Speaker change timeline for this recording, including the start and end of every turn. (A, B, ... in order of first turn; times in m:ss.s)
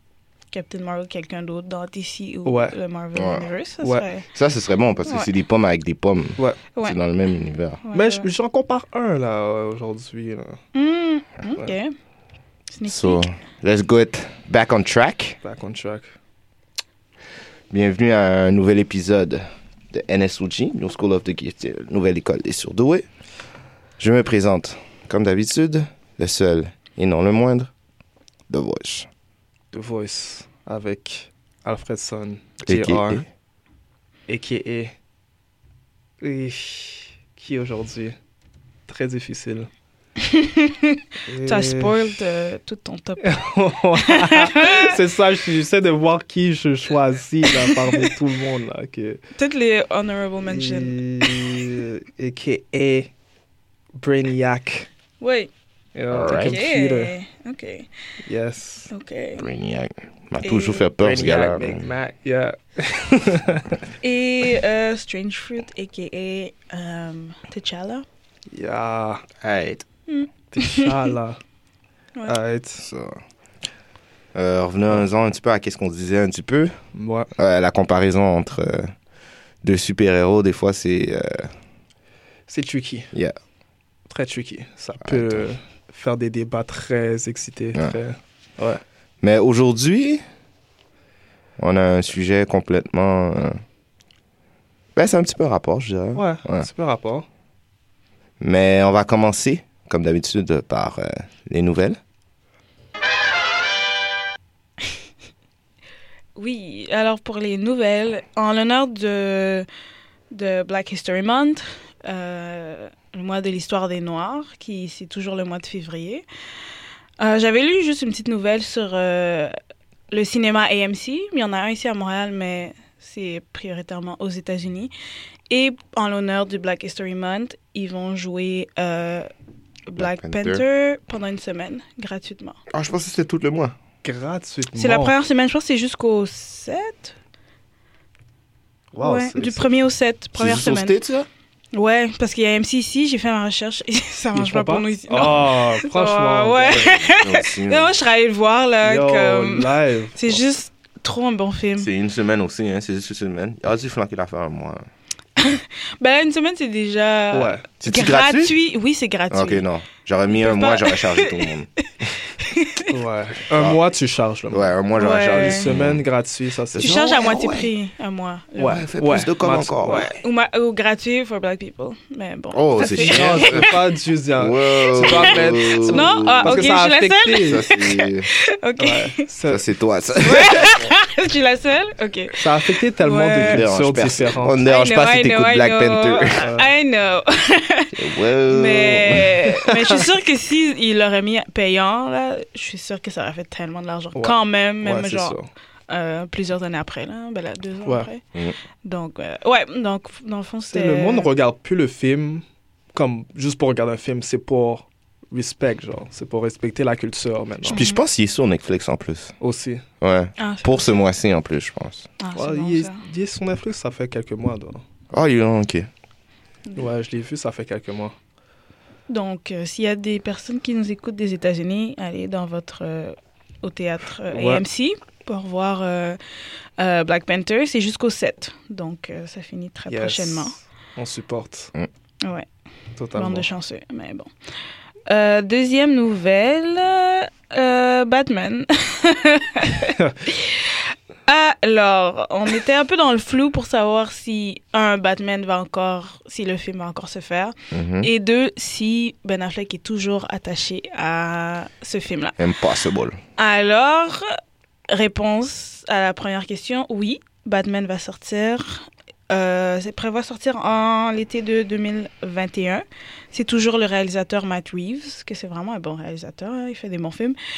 0:00.5-0:04.2 A
0:02.4-0:02.7 B
0:03.1-0:03.5 C
0:04.3-0:07.8 C
0:07.8-0:08.2 A
0:07.9-0:10.6 B
0:10.7-0:11.9 A
0:12.7-0:13.2 A
0:12.9-0:15.4 C
0:15.4-0:16.1 B
0:17.7-0:23.0 C
0:24.0-0:27.7 C
0:28.5-0:29.1 C
0:29.7-0:33.2 B
0:32.6-0:33.2 C
0:34.3-0:34.9 B
0:36.2-0:38.2 B
0:38.9-0:39.7 B
0:40.2-0:43.4 A
0:41.3-0:42.2 B
0:43.2-0:49.2 B
0:44.0-0:44.9 A
0:47.6-0:48.1 A
0:49.4-0:51.7 A
0:50.4-0:53.1 B
0:54.0-0:54.9 B
0:55.2-0:55.5 A
0:55.9-0:57.1 B
0:56.1-0:56.5 C
0:56.3-0:57.9 A
0:58.2-0:58.9 B
0:58.9-0:59.4 A
0:59.4-1:01.9 C
1:00.4-1:00.9 A
1:01.0-1:03.8 B
1:04.0-1:08.0 A
1:08.5-1:09.3 B
1:09.4-1:09.8 C
1:10.1-1:11.1 A
1:10.5-1:11.4 B
1:12.2-1:12.8 B
1:12.8-1:13.2 C
1:14.3-1:16.8 C
1:16.9-1:17.3 B
1:17.4-1:18.9 C
1:19.6-1:21.5 C
1:22.5-1:23.1 B
1:24.1-1:28.8 B
1:25.0-1:25.4 C
1:29.2-1:30.2 C
1:31.6-1:33.6 C
1:35.0-1:36.7 C
1:36.1-1:37.2 B
1:38.4-1:42.0 C
1:46.4-1:49.7 A
1:50.3-1:56.2 A
1:57.2-1:59.5 A
2:00.1-2:04.9 A
2:05.5-2:09.3 A
2:09.9-2:12.6 A
2:10.0-2:10.6 C
2:12.7-2:13.8 C
2:14.0-2:15.1 B
2:14.7-2:17.1 A
2:18.9-2:19.7 B
2:19.0-2:20.9 A
2:20.4-2:21.3 C
2:21.7-2:31.9 A
2:24.3-2:26.9 B
2:26.7-2:27.9 C
2:28.8-2:30.4 B
2:31.8-2:34.8 C
2:35.4-2:39.6 A
2:37.3-2:37.6 B
2:37.8-2:38.5 C
2:39.3-2:42.1 C
2:40.3-2:41.5 A
2:42.4-2:42.9 A
2:42.9-2:44.7 B
2:43.5-2:43.8 C
2:44.5-2:46.0 C
2:45.0-2:45.6 A
2:45.3-2:46.9 B
2:46.7-2:47.7 C
2:46.8-2:48.8 A
2:48.6-2:50.0 B
2:48.6-2:50.1 C
2:49.8-2:53.8 A
2:52.5-2:53.8 C
2:52.8-2:57.6 B
2:54.3-2:56.8 C
2:55.8-2:59.1 A
2:57.4-2:58.3 C
2:58.8-2:59.6 B
2:59.5-3:00.8 C
3:00.2-3:03.6 A
3:02.4-3:04.6 B
3:03.3-3:06.4 C
3:04.6-3:07.9 A
3:06.4-3:06.7 B
3:07.9-3:09.4 C
3:08.5-3:15.4 A
3:09.7-3:10.0 B
3:14.2-3:15.5 B
3:15.9-3:18.2 A
3:18.8-3:21.3 A
3:20.7-3:27.9 B
3:27.7-3:28.0 A
3:27.7-3:29.3 C
3:29.4-3:29.8 B
3:30.0-3:32.1 C
3:30.4-3:30.9 A
3:32.2-3:33.0 A
3:32.3-3:34.8 B
3:35.1-3:35.9 C
3:36.7-3:38.1 B
3:39.1-3:46.2 A
3:44.3-3:44.6 B
3:46.8-3:50.6 A
3:49.9-3:51.7 B
3:52.2-3:52.5 A
3:53.0-3:53.4 B
3:53.1-3:54.3 A
3:55.1-4:12.4 A
4:07.7-4:08.1 C
4:12.4-4:13.2 C
4:13.4-4:14.3 A
4:14.9-4:27.4 A